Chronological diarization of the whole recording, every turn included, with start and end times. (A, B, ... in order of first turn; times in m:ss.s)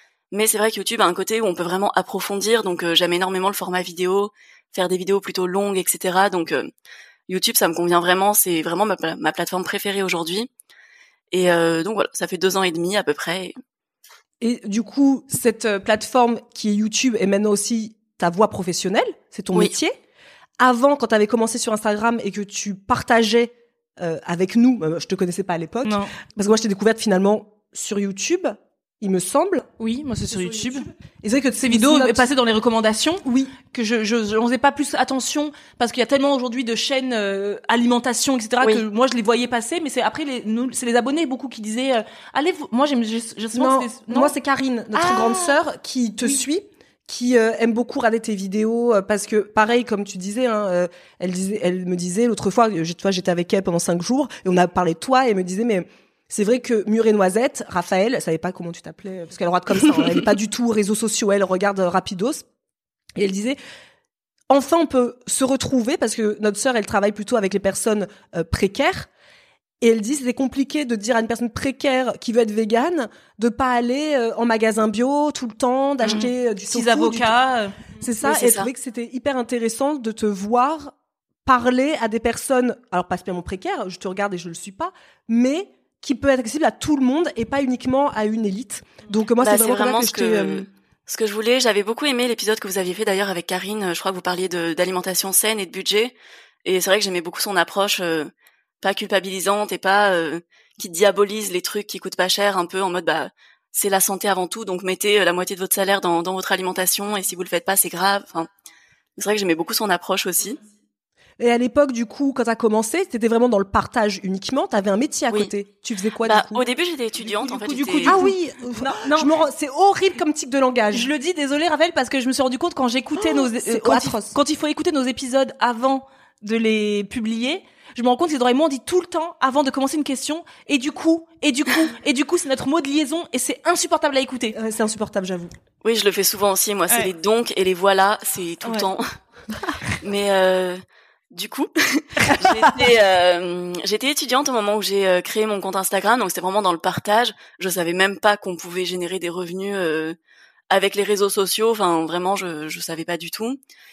0:00.3-0:06.7 A
0:07.3-0:10.5 A
0:11.3-0:13.5 A
0:14.4-0:20.0 B
0:20.6-0:29.7 B
0:25.8-0:26.1 C
0:29.8-0:30.9 C
0:30.3-0:32.3 B
0:31.6-0:44.3 C
0:33.2-0:33.5 B
0:43.5-1:02.4 B
0:44.9-0:45.6 C
1:03.2-1:03.6 B
1:04.5-1:09.1 B
1:09.8-1:17.3 B
1:16.1-1:17.9 C
1:18.0-1:30.7 B
1:18.2-1:18.7 A
1:29.4-1:36.1 A
1:36.6-1:38.3 A
1:38.8-1:48.5 A
1:49.2-1:50.6 A
1:51.4-1:56.6 B
1:56.2-1:58.2 A
1:57.2-1:59.3 C
1:58.1-2:01.1 B
2:00.9-2:14.6 C
2:03.2-2:04.4 B
2:14.5-2:15.5 B
2:15.8-2:19.0 A
2:20.0-2:30.2 A
2:30.7-2:33.6 A